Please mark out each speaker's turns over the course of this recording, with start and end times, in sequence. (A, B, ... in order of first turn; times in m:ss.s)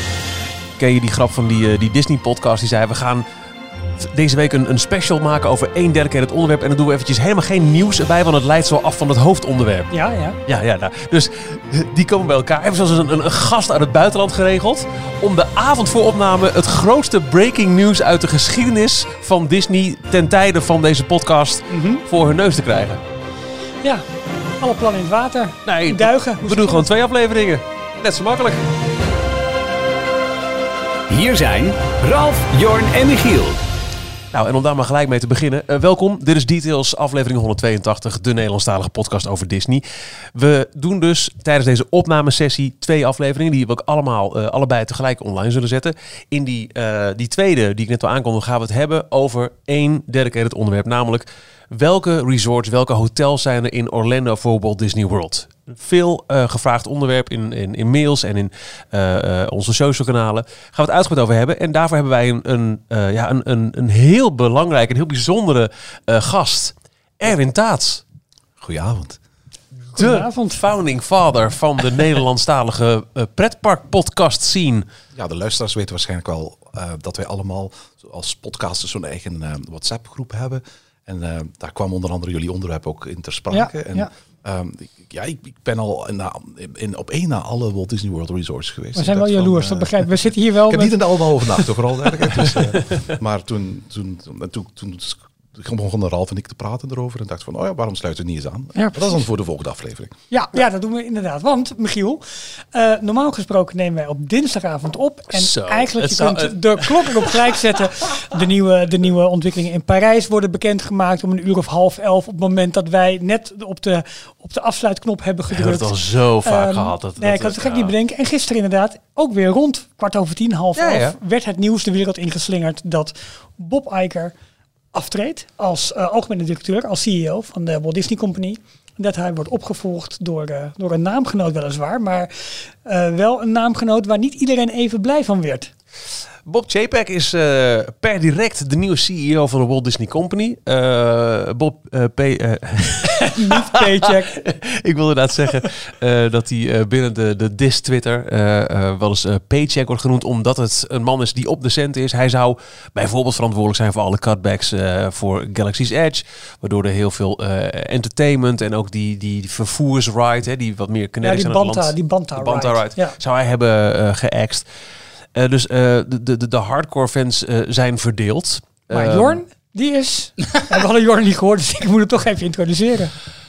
0:00.8-0:03.3 A
0:04.0-0:09.9 A
0:09.9-0:10.4 B
0:10.4-0:23.0 A
0:21.7-0:22.0 B
0:24.6-0:26.9 B
0:25.6-0:28.6 A
0:31.1-0:33.6 C
0:34.3-0:39.8 A
0:40.3-1:08.0 A
1:08.6-1:09.2 D
1:09.9-1:10.6 B
1:10.0-1:14.9 A
1:15.1-1:40.1 D
1:23.5-1:24.1 B
1:28.9-1:31.4 B
1:38.7-1:39.2 B
1:40.3-2:04.4 B
1:45.4-1:47.3 A
1:55.5-1:57.9 A
2:00.8-2:01.1 A
2:04.9-2:15.7 B
2:16.4-2:44.7 A
2:23.3-2:24.3 B
2:41.2-2:43.2 B
2:45.3-2:49.4 A
2:48.9-2:53.1 B